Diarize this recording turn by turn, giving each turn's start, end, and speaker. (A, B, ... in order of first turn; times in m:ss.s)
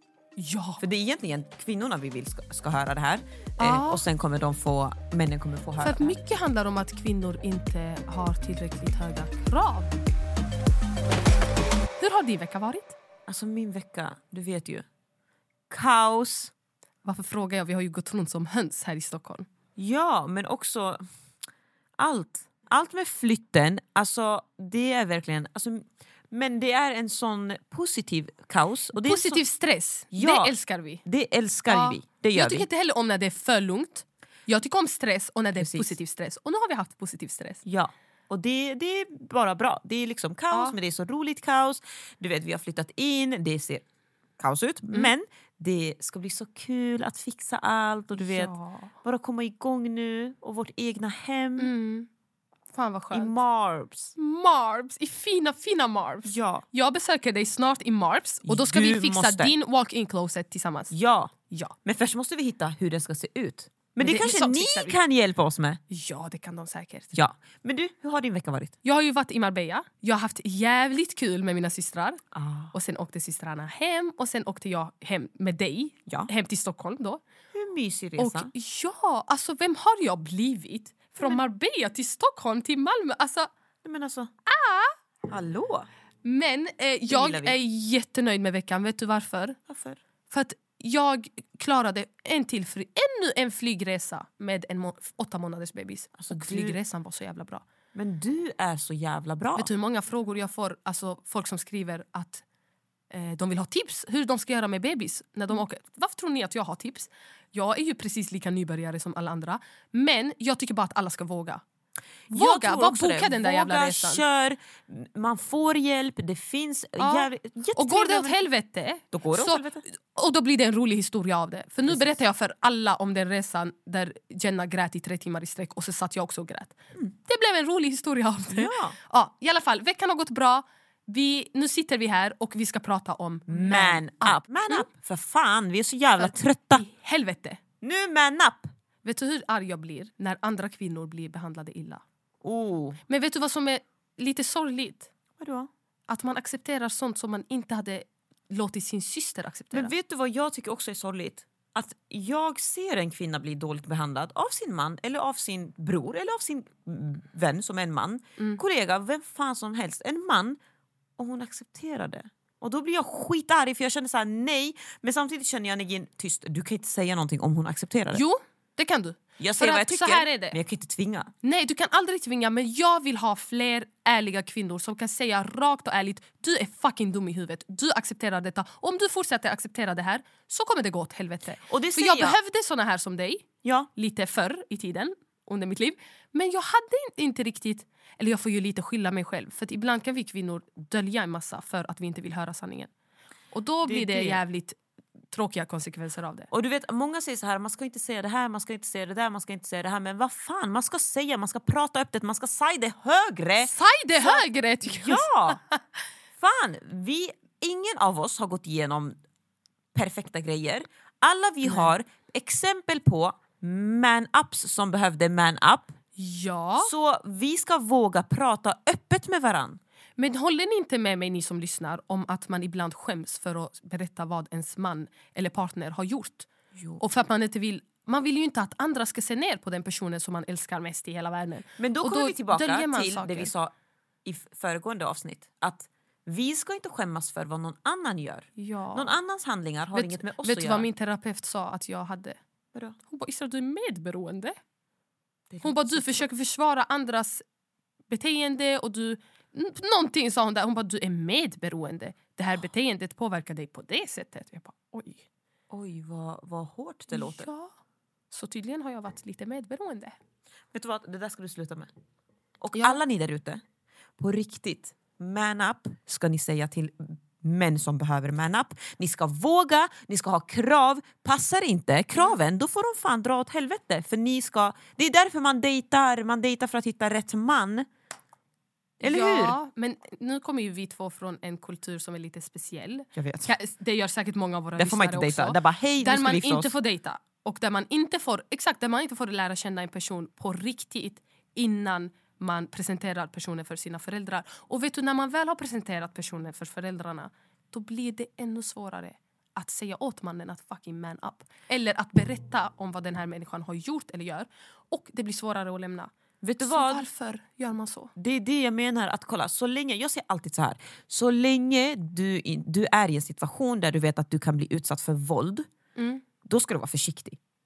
0:00.4-0:00.8 A
0:00.8-0:06.1 B
0:03.6-0:04.0 A
0:05.8-0:10.0 A
0:12.0-0:13.0 A
0:13.3-0:14.8 B
0:15.7-0:16.5 B
0:17.0-0:19.4 A
0:19.8-0:21.0 B
0:22.0-0:29.4 B
0:29.0-0:31.0 A
0:30.1-0:32.7 B
0:31.7-0:37.6 A
0:35.6-0:35.9 B
0:37.6-0:43.8 B
0:40.5-0:40.8 A
0:44.4-0:51.7 B
0:48.2-0:48.9 A
0:51.6-0:52.1 A
0:52.7-0:53.3 A
0:53.1-0:54.2 B
0:54.2-1:00.9 A
0:56.2-0:56.6 B
0:58.5-0:59.5 B
1:00.9-1:01.3 B
1:01.8-1:05.8 B
1:04.0-1:05.0 A
1:05.9-1:07.1 A
1:07.1-1:08.7 B
1:08.8-1:12.2 A
1:12.3-1:12.7 B
1:12.7-1:17.2 A
1:17.5-1:18.5 B
1:18.2-1:23.5 A
1:23.8-1:24.3 B
1:24.5-1:24.9 A
1:25.3-1:25.9 B
1:26.2-1:29.6 A
1:27.1-1:27.6 B
1:29.7-1:30.0 B
1:30.3-1:37.6 A
1:36.2-1:36.8 B
1:37.9-1:39.7 B
1:39.6-1:42.4 A
1:43.1-1:51.6 A
1:52.3-1:58.5 B
1:52.3-1:54.2 A
1:57.0-2:14.8 A
1:59.1-1:59.8 B
2:01.8-2:02.2 B
2:08.5-2:09.0 B
2:13.5-2:16.8 B
2:16.2-2:17.6 A
2:17.8-2:18.7 B
2:19.0-2:22.0 A
2:22.4-2:23.0 B
2:23.1-2:25.1 A
2:25.4-2:25.7 B
2:26.1-2:29.9 A
2:29.7-2:40.6 B
2:41.2-2:48.2 B
2:48.1-2:50.6 A
2:49.4-2:51.3 B
2:51.4-3:12.9 A
3:01.7-3:02.4 B
3:03.6-3:03.9 B
3:13.5-3:14.8 A
3:13.8-3:14.4 B
3:15.3-3:16.5 A
3:16.5-3:25.6 B
3:23.6-3:25.8 A
3:26.4-3:29.2 B
3:29.9-3:35.9 B
3:31.6-3:31.9 A
3:36.2-3:36.9 A
3:36.8-3:39.8 B
3:40.2-3:46.5 A
3:46.8-3:47.0 B
3:47.0-3:53.5 A
3:51.8-3:53.7 B
3:54.2-4:00.9 B
3:58.6-3:59.1 A
3:59.9-4:02.4 A
4:03.1-4:04.6 A
4:05.5-4:06.3 B
4:05.6-4:07.4 A
4:08.1-4:15.2 A
4:15.7-4:17.5 B
4:17.1-4:17.7 A
4:18.3-4:20.2 A
4:20.7-4:21.9 B
4:22.6-4:23.6 B
4:22.7-4:23.0 A
4:24.2-4:37.9 B
4:39.0-4:39.6 B
4:39.0-5:06.1 A
4:43.1-4:43.5 B
4:44.8-4:46.7 B
5:06.4-5:07.0 B
5:06.6-5:08.1 A
5:08.2-5:15.7 B
5:16.0-5:16.2 A
5:16.4-5:17.4 B